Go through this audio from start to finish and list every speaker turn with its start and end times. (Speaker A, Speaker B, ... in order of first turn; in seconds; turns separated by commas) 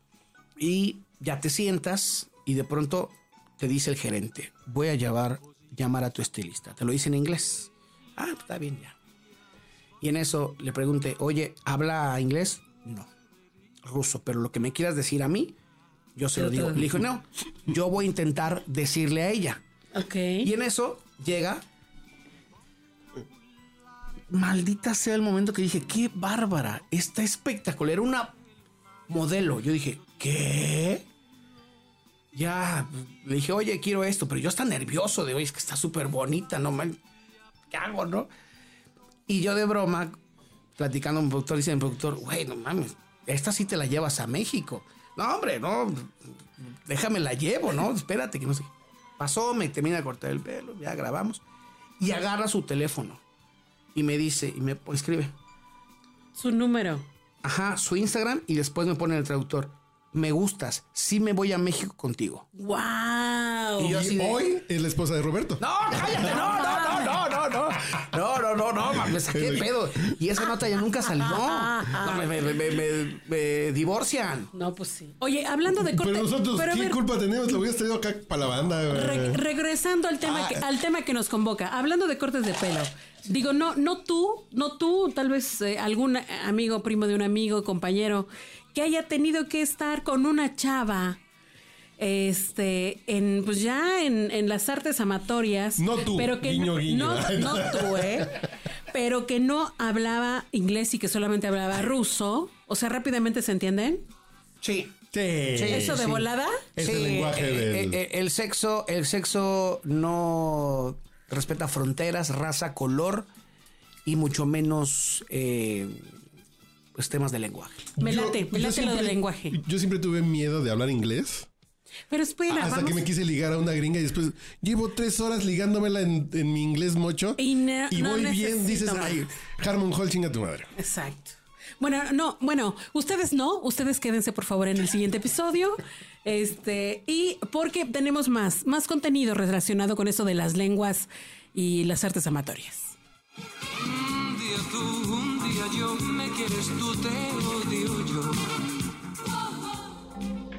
Speaker A: 0.6-8.9, Speaker A: 10.0-13.1, Speaker A: 13.8-15.6, Speaker A: 16.2-19.6, Speaker B: 16.4-17.0, Speaker B: 19.9-20.5, Speaker A: 20.4-21.6, Speaker A: 24.3-28.4, Speaker A: 29.1-31.1, Speaker A: 32.3-37.0, Speaker A: 37.7-38.3, Speaker A: 39.3-40.2, Speaker A: 40.8-51.4, Speaker A: 52.0-53.2, Speaker A: 54.0-55.3, Speaker B: 56.3-57.1, Speaker A: 57.4-62.5, Speaker B: 62.5-64.0, Speaker A: 63.8-64.5, Speaker C: 63.9-66.2, Speaker A: 65.6-74.5, Speaker B: 66.2-67.2, Speaker C: 69.2-70.2, Speaker B: 71.2-72.3, Speaker B: 74.5-77.0, Speaker C: 75.7-79.4, Speaker B: 78.9-91.2, Speaker C: 80.2-80.6, Speaker B: 92.0-104.1, Speaker C: 95.8-98.3, Speaker A: 104.6-104.9, Speaker C: 105.1-108.0, Speaker A: 105.5-106.0, Speaker B: 105.7-106.6, Speaker A: 106.8-113.3, Speaker A: 114.1-116.1, Speaker A: 117.0-117.9, Speaker B: 118.0-119.6, Speaker C: 118.0-121.5, Speaker B: 122.1-123.0, Speaker C: 122.5-130.7, Speaker B: 127.4-129.3, Speaker B: 130.8-143.0, Speaker D: 143.9-148.7